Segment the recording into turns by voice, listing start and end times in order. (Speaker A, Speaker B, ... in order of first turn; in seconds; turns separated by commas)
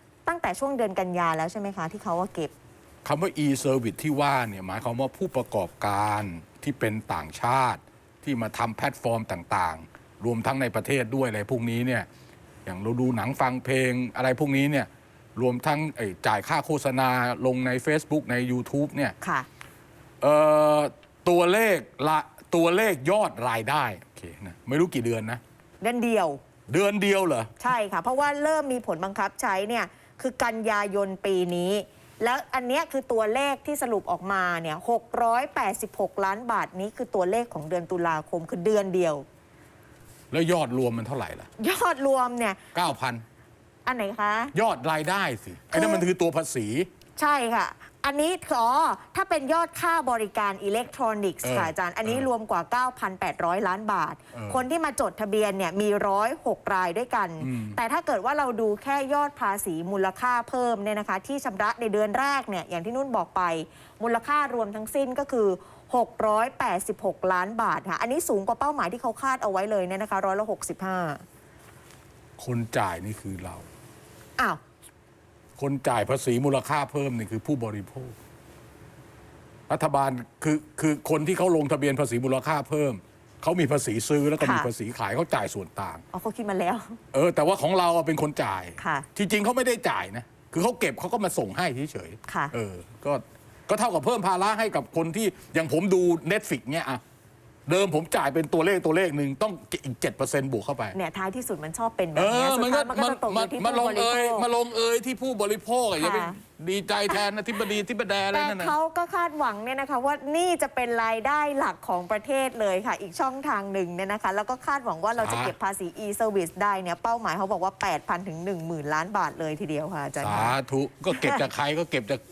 Speaker A: 0.3-2.5, Speaker B: 3.0-12.1, Speaker B: 12.7-19.1, Speaker A: 19.2-19.5, Speaker B: 20.2-25.4, Speaker A: 25.8-26.4, Speaker B: 26.7-27.6, Speaker A: 27.6-39.2, Speaker B: 40.3-41.5, Speaker A: 41.6-42.6, Speaker B: 42.7-43.2, Speaker A: 43.9-44.5, Speaker B: 44.5-46.9, Speaker A: 45.7-46.1, Speaker A: 47.2-71.2, Speaker B: 51.4-52.3, Speaker B: 54.3-54.6, Speaker B: 57.4-57.8, Speaker B: 72.4-73.7, Speaker B: 75.6-78.1, Speaker B: 79.7-86.0, Speaker A: 84.4-84.7, Speaker A: 86.1-87.0, Speaker B: 87.1-97.0, Speaker A: 88.8-89.1, Speaker A: 92.3-92.5, Speaker B: 97.7-101.0, Speaker A: 100.9-104.5, Speaker B: 102.2-108.8, Speaker A: 106.0-106.4, Speaker A: 108.3-120.6, Speaker B: 115.2-115.5, Speaker B: 120.2-122.2, Speaker A: 121.1-121.4